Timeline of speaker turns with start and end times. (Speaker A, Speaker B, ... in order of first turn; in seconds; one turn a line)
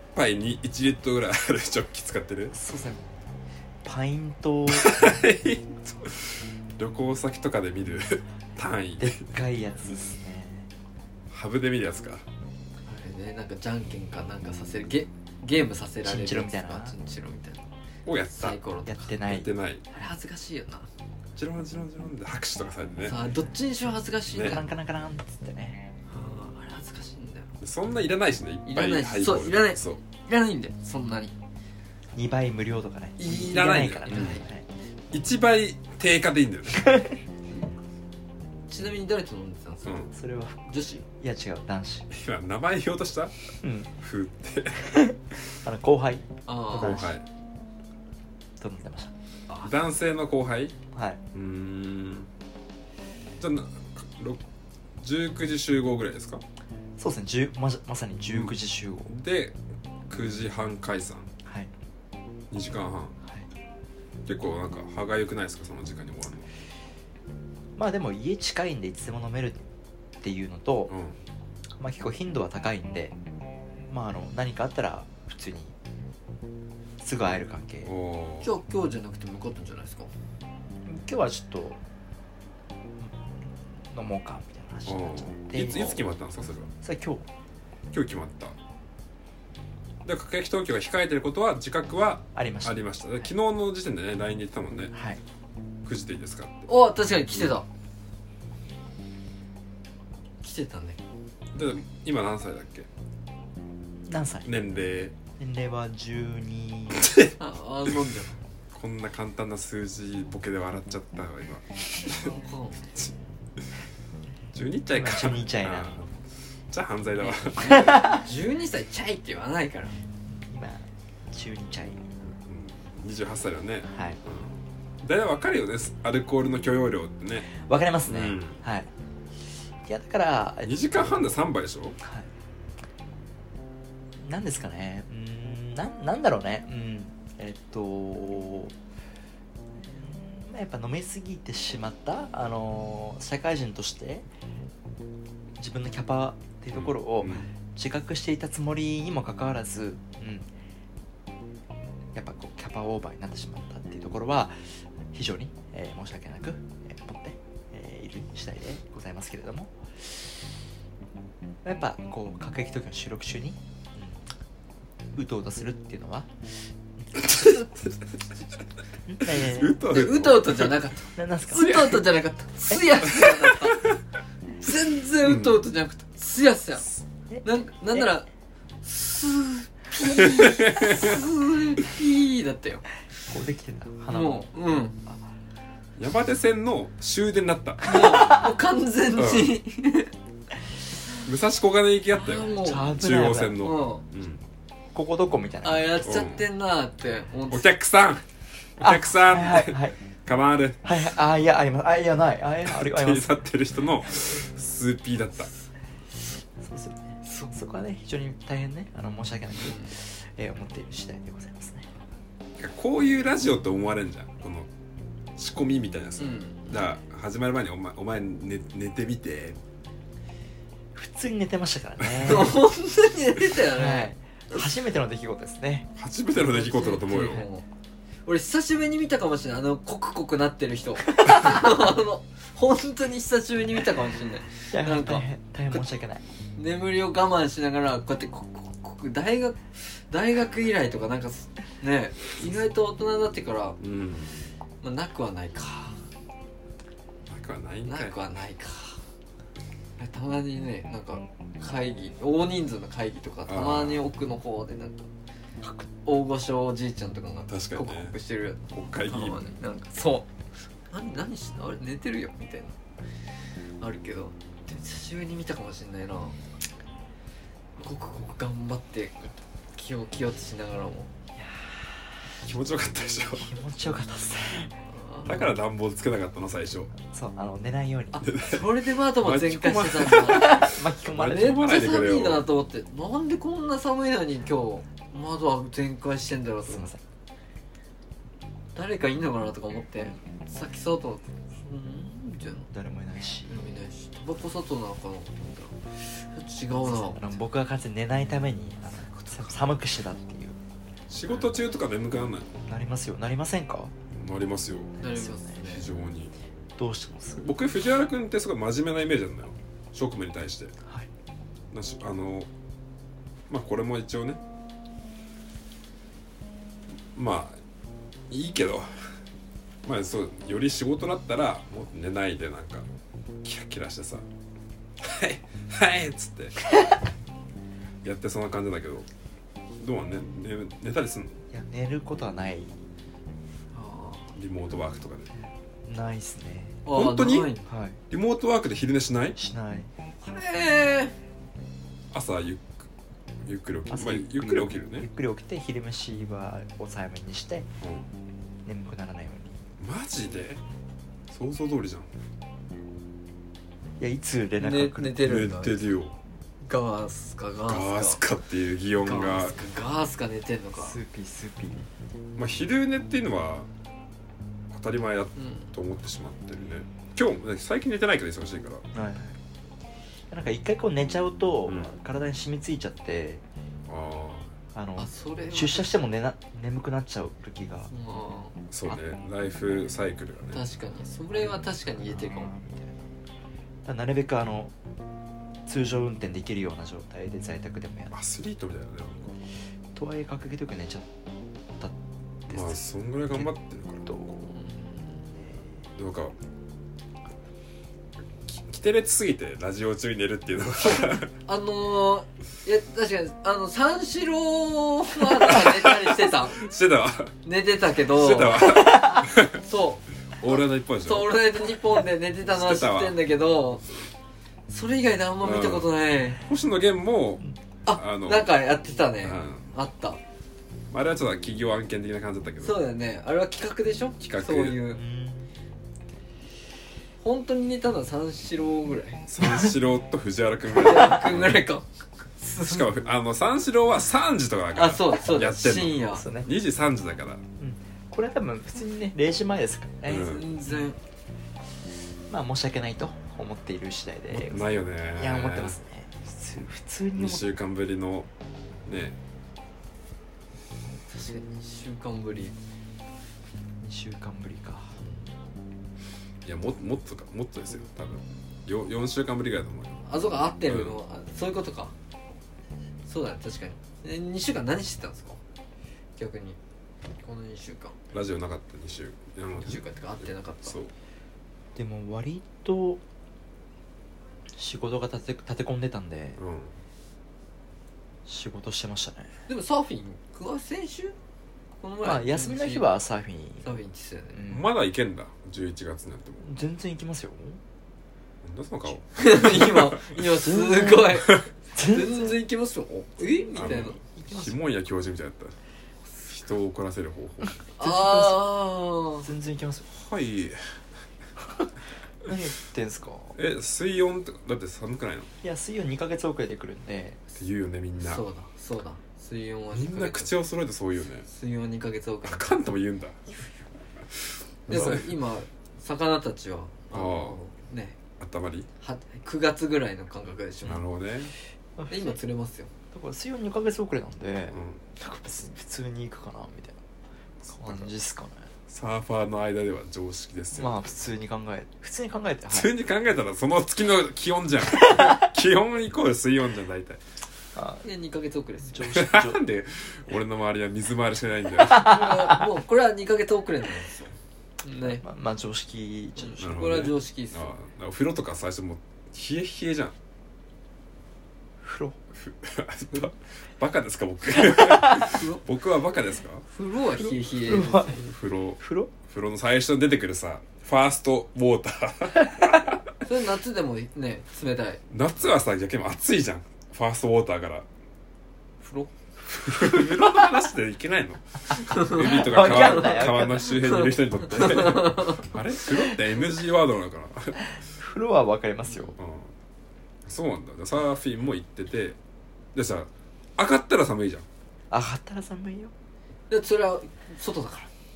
Speaker A: 0.1-2.5
Speaker B: 2.5-3.0
Speaker B: 3.8-5.2
Speaker A: 4.7-9.2
Speaker B: 9.0-10.7
Speaker A: 11.3-12.2
Speaker C: 12.9-17.7
Speaker B: 16.1-16.9
Speaker A: 18.1-18.6
Speaker C: 18.3-19.1
Speaker B: 18.9-19.5
Speaker A: 19.3-19.8
Speaker C: 19.9-20.9
Speaker A: 21.4-23.2
Speaker C: 23.0-24.6
Speaker A: 24.3-24.6
Speaker B: 24.4-25.9
Speaker C: 26.1-27.5
Speaker A: 27.6-30.0
Speaker C: 28.7-31.3
Speaker B: 32.1-34.6
Speaker C: 33.2-34.5
Speaker A: 33.3-34.4
Speaker A: 35.1-37.0
Speaker B: 36.8-37.1
Speaker C: 38.7-40.0
Speaker A: 39.9-40.1
Speaker B: 40.1-40.7
Speaker C: 40.7-41.0
Speaker B: 41.2-42.1
Speaker A: 42.1-43.3
Speaker B: 43.6-43.9
Speaker A: 44.0-44.9
Speaker B: 44.8-47.1
Speaker C: 46.5-47.1
Speaker A: 46.8-47.2
Speaker B: 48.6-49.1
Speaker A: 49.6-50.8
Speaker B: 50.9-51.2
Speaker A: 51.3-52.3
Speaker A: 53.4-54.4
Speaker A: 55.0-56.4
Speaker B: 57.0-59.1
Speaker A: 58.3-58.6
Speaker A: 59.1-59.6
Speaker A: 60.1-61.3
Speaker B: 61.5-61.7
Speaker A: 62.5-63.2
Speaker A: 64.3-66.5
Speaker B: 67.8-69.7
Speaker B: 70.2-70.9
Speaker A: 70.9-71.2
Speaker B: 71.8-73.2
Speaker B: 73.9-75.8
Speaker B: 77.0-77.9
Speaker A: 77.8-78.5
Speaker C: 78.4-80.1
Speaker B: 80.8-81.8
Speaker B: 83.9-86.0
Speaker A: 84.9-86.7
Speaker B: 86.8-87.3
Speaker A: 87.9-88.6
Speaker A: 90.0-94.9
Speaker B: 92.3-93.3
Speaker B: 94.9-95.2
Speaker A: 95.8-96.7
Speaker C: 96.7-97.7
Speaker C: 100.4-101.0
Speaker A: 101.5-102.9
Speaker B: 104.1-104.5
Speaker A: 104.5-105.2
Speaker B: 105.4-107.1
Speaker A: 106.9-107.3
Speaker C: 107.4-108.4
Speaker A: 108.7-112.3
Speaker C: 112.0-112.9
Speaker A: 114.5-116.1
Speaker B: 114.9-116.0
Speaker A: 116.7-118.2
Speaker C: 117.2-120.0
Speaker B: 117.6-118.2
Speaker B: 120.4-122.1
Speaker A: 122.2-127.5
Speaker B: 123.9-124.2
Speaker B: 127.5-128.9
Speaker A: 128.1-128.6
Speaker B: 129.8-131.3
Speaker A: 130.6-132.0
Speaker B: 132.0-132.3
Speaker B: 134.2-138.8
Speaker B: 139.8-144.3
Speaker B: 145.6-150.5
Speaker A: 146.7-147.5
Speaker B: 152.1-160.2
Speaker B: 161.6-164.2
Speaker B: 165.1-166.3
Speaker B: 167.2-167.6
Speaker A: 167.3-167.7
Speaker B: 169.1-169.8
Speaker A: 169.2-170.8
Speaker C: 169.9-173.9
Speaker B: 171.2-171.9
Speaker A: 171.6-172.0
Speaker A: 173.5-174.0
Speaker C: 174.6-176.9
Speaker A: 175.2-175.6
Speaker B: 177.3-178.1
Speaker C: 177.4-178.3
Speaker C: 178.8-182.9
Speaker A: 180.2-181.2
Speaker B: 183.3-184.5
Speaker C: 184.1-185.0
Speaker A: 186.0-188.2
Speaker C: 187.8-190.1
Speaker B: 187.9-188.5
Speaker A: 189.2-189.5
Speaker A: 191.2-194.4
Speaker C: 192.1-192.9
Speaker B: 192.6-193.6
Speaker C: 193.6-194.0
Speaker B: 194.9-196.0
Speaker C: 195.6-197.7
Speaker A: 196.0-196.4
Speaker A: 197.5-198.2
Speaker A: 198.8-200.8
Speaker B: 198.8-200.0
Speaker B: 200.8-203.4
Speaker A: 202.7-205.5
Speaker B: 206.6-211.9
Speaker C: 207.2-207.6
Speaker C: 209.6-209.9
Speaker A: 212.6-214.7
Speaker A: 215.4-219.6
Speaker C: 216.2-216.8
Speaker B: 220.9-222.6
Speaker C: 222.2-224.1
Speaker B: 223.7-225.9
Speaker A: 226.0-227.5
Speaker C: 226.3-227.7
Speaker C: 228.3-235.8
Speaker B: 234.7-236.2
Speaker C: 236.6-243.8
Speaker A: 243.8-244.4
Speaker C: 244.8-246.0
Speaker A: 247.3-248.2
Speaker C: 247.9-249.0
Speaker C: 250.0-255.1
Speaker A: 253.5-254.0
Speaker B: 255.6-255.9
Speaker C: 256.0-260.3
Speaker A: 257.5-258.1
Speaker A: 258.7-259.5
Speaker C: 260.9-262.8
Speaker C: 263.8-266.4
Speaker C: 267.8-271.1
Speaker B: 271.4-272.2
Speaker A: 272.4-273.5
Speaker B: 273.4-274.7
Speaker C: 274.9-275.5
Speaker A: 275.3-276.9
Speaker B: 277.0-278.2
Speaker C: 278.1-286.9
Speaker A: 278.2-282.4
Speaker B: 280.3-281.6
Speaker B: 286.7-287.0
Speaker C: 288.8-292.7
Speaker B: 292.7-293.6
Speaker C: 293.5-297.4
Speaker B: 296.8-300.6
Speaker C: 299.1-299.7
Speaker A: 301.1-302.5
Speaker B: 302.7-303.9
Speaker A: 304.1-305.0
Speaker C: 305.0-305.9
Speaker B: 305.1-305.4
Speaker A: 305.6-306.3
Speaker B: 306.8-307.5
Speaker A: 307.4-310.7
Speaker B: 310.8-311.1
Speaker A: 311.7-312.5
Speaker A: 313.5-314.4
Speaker A: 317.1-317.6
Speaker A: 318.3-318.9
Speaker A: 319.9-322.9
Speaker A: 323.4-324.2
Speaker A: 325.0-326.7
Speaker A: 328.0-329.1
Speaker A: 329.8-331.4
Speaker B: 331.5-332.8
Speaker C: 333.7-334.3
Speaker A: 334.4-335.3
Speaker B: 335.4-336.8
Speaker C: 336.9-337.7
Speaker A: 336.9-337.5
Speaker B: 337.7-338.0
Speaker A: 338.1-339.4
Speaker B: 339.4-339.9
Speaker C: 340.2-341.1
Speaker A: 342.1-342.9
Speaker A: 343.4-345.1
Speaker B: 343.9-347.7
Speaker A: 347.8-348.1
Speaker B: 348.6-349.6
Speaker A: 349.8-350.6
Speaker A: 351.3-352.1
Speaker B: 354.0-355.3
Speaker C: 354.6-355.8
Speaker A: 355.2-356.1
Speaker C: 356.6-358.2
Speaker A: 357.7-359.6
Speaker C: 359.0-361.0
Speaker B: 360.8-361.9
Speaker A: 362.4-363.7
Speaker A: 364.7-368.9
Speaker C: 365.4-365.7
Speaker B: 368.9-369.4
Speaker B: 370.3-373.4
Speaker A: 373.9-374.5
Speaker B: 374.7-377.9
Speaker C: 375.0-376.0
Speaker C: 377.9-378.6
Speaker A: 378.7-380.7
Speaker C: 380.5-382.5
Speaker B: 381.4-383.0
Speaker B: 383.8-384.7
Speaker B: 385.6-388.1
Speaker A: 388.1-389.4
Speaker B: 389.9-391.1
Speaker B: 392.5-393.5
Speaker A: 392.5-394.3
Speaker B: 394.1-394.6
Speaker C: 394.5-395.2
Speaker A: 396.0-396.3
Speaker A: 398.5-401.3
Speaker C: 400.8-406.6
Speaker A: 405.5-407.3
Speaker C: 407.4-410.0
Speaker A: 408.1-409.6
Speaker B: 408.8-409.2
Speaker A: 410.4-411.4
Speaker C: 411.0-413.8
Speaker A: 412.5-413.2
Speaker C: 414.7-416.4
Speaker A: 415.4-415.9
Speaker A: 416.4-418.5
Speaker C: 417.9-420.2
Speaker A: 419.2-419.7
Speaker A: 420.9-422.8
Speaker C: 422.6-425.0
Speaker A: 424.2-424.8
Speaker B: 424.9-425.5
Speaker C: 427.2-429.3
Speaker A: 429.3-431.6
Speaker B: 429.4-429.7
Speaker C: 430.7-431.9
Speaker C: 432.4-432.9
Speaker A: 432.6-437.4
Speaker C: 434.8-436.2
Speaker B: 436.1-436.5
Speaker B: 437.6-440.8
Speaker A: 440.1-440.5
Speaker C: 440.1-441.0
Speaker B: 442.3-447.4
Speaker A: 444.3-445.8
Speaker A: 447.2-448.3
Speaker A: 448.9-449.2
Speaker C: 451.1-452.6
Speaker B: 453.8-455.0
Speaker C: 455.0-455.3
Speaker A: 456.4-460.1
Speaker C: 460.1-461.9
Speaker A: 460.6-461.0
Speaker C: 463.1-465.4
Speaker C: 466.2-466.6
Speaker C: 467.2-468.0
Speaker A: 468.1-470.9
Speaker C: 469.6-470.8
Speaker B: 471.8-473.0
Speaker B: 474.5-476.4
Speaker A: 476.4-476.7
Speaker B: 478.3-479.3
Speaker C: 479.5-481.2
Speaker C: 481.8-482.9
Speaker B: 482.0-483.7
Speaker C: 483.6-484.5
Speaker B: 484.4-484.7
Speaker A: 484.5-486.5
Speaker B: 486.4-487.6
Speaker A: 488.4-490.2
Speaker C: 489.2-494.1
Speaker B: 490.4-492.4
Speaker B: 493.2-494.5
Speaker A: 493.6-495.6
Speaker A: 496.3-497.6
Speaker C: 497.8-499.3
Speaker B: 497.8-498.5
Speaker B: 499.2-499.9
Speaker A: 499.9-500.6
Speaker B: 501.4-501.7
Speaker B: 502.2-503.4
Speaker A: 503.4-505.3
Speaker B: 505.4-507.2
Speaker A: 507.4-508.2
Speaker C: 508.0-510.3
Speaker A: 509.7-511.3
Speaker C: 511.3-512.6
Speaker A: 512.3-513.3
Speaker A: 514.7-515.1
Speaker C: 514.7-518.0
Speaker A: 516.9-517.4
Speaker A: 518.2-518.7
Speaker C: 518.8-520.8
Speaker A: 520.6-521.3
Speaker B: 521.8-522.2
Speaker C: 521.9-522.7
Speaker B: 522.9-526.8
Speaker A: 524.5-524.8
Speaker A: 527.5-527.9
Speaker B: 527.5-528.5
Speaker A: 528.7-530.9
Speaker B: 530.5-532.7
Speaker A: 532.5-537.0
Speaker B: 534.8-535.3
Speaker B: 537.5-537.8
Speaker C: 537.8-538.9
Speaker B: 538.7-539.4
Speaker A: 538.8-542.0
Speaker B: 541.6-542.4
Speaker C: 541.7-544.1
Speaker C: 544.6-545.0
Speaker B: 544.9-546.4
Speaker C: 546.2-547.5
Speaker A: 546.4-550.0
Speaker B: 551.6-552.0
Speaker A: 552.1-556.4
Speaker B: 554.4-555.1
Speaker C: 555.1-555.4
Speaker C: 556.5-558.0
Speaker B: 557.4-558.0
Speaker A: 557.9-562.8
Speaker B: 558.6-558.9
Speaker B: 562.2-562.5
Speaker C: 563.0-564.8
Speaker A: 564.9-567.7
Speaker C: 568.6-568.9
Speaker A: 569.3-577.4
Speaker C: 571.5-575.3
Speaker B: 572.0-573.6
Speaker B: 577.7-579.0
Speaker A: 579.0-579.3
Speaker A: 580.1-582.0
Speaker A: 582.5-584.3
Speaker B: 584.7-585.7
Speaker C: 586.3-587.7